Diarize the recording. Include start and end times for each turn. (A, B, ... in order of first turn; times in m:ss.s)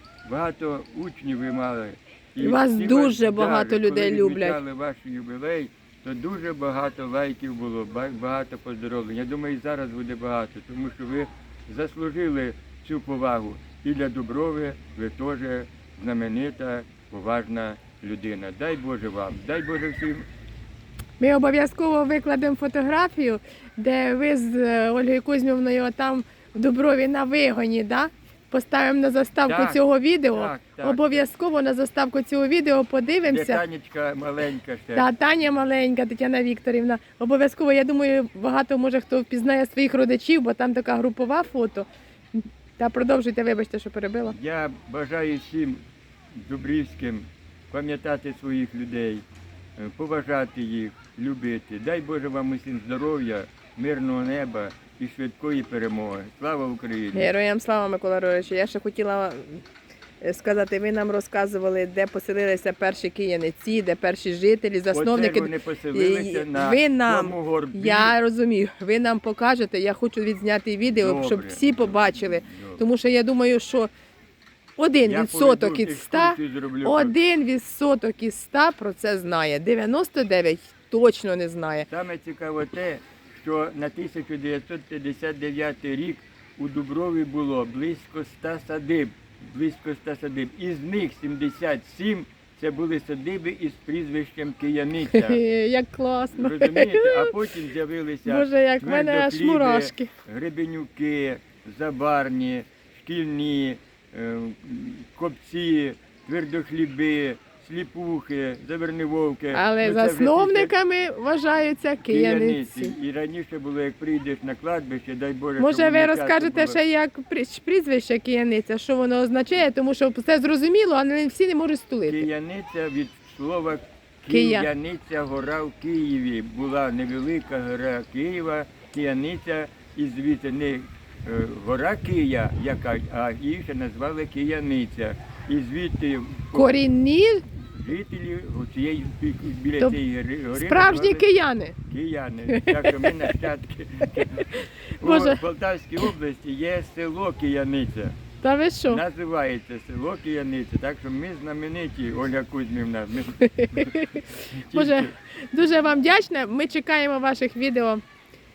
0:00.2-0:20.2 A
0:02.4-0:04.6 B
0:21.2-0:33.6 B
0:29.5-0:31.2 A
0:33.2-0:35.1 A
0:34.9-0:44.3 B
0:44.3-0:49.2 A
0:49.8-0:57.3 A
0:57.1-0:59.6 B
1:00.2-1:13.9 B
1:04.9-1:08.2 A
1:10.9-1:12.8 A
1:14.8-1:21.9 B
1:15.0-1:17.2 A
1:21.9-1:35.4 A
1:35.1-1:37.4 B
1:36.3-1:50.7 A
1:38.2-1:40.1 B
1:49.5-1:52.9 B
1:52.1-1:56.8 A
1:55.6-2:02.2 B
2:02.0-2:16.8 A
2:04.3-2:04.7 B
2:16.5-2:17.4 B
2:17.5-2:21.3 A
2:20.5-2:21.8 B
2:21.8-2:28.2 A
2:22.5-2:23.1 B
2:24.2-2:24.5 B
2:25.0-2:25.4 B
2:28.4-2:29.0 B
2:28.9-2:35.1 A
2:33.6-2:38.0 B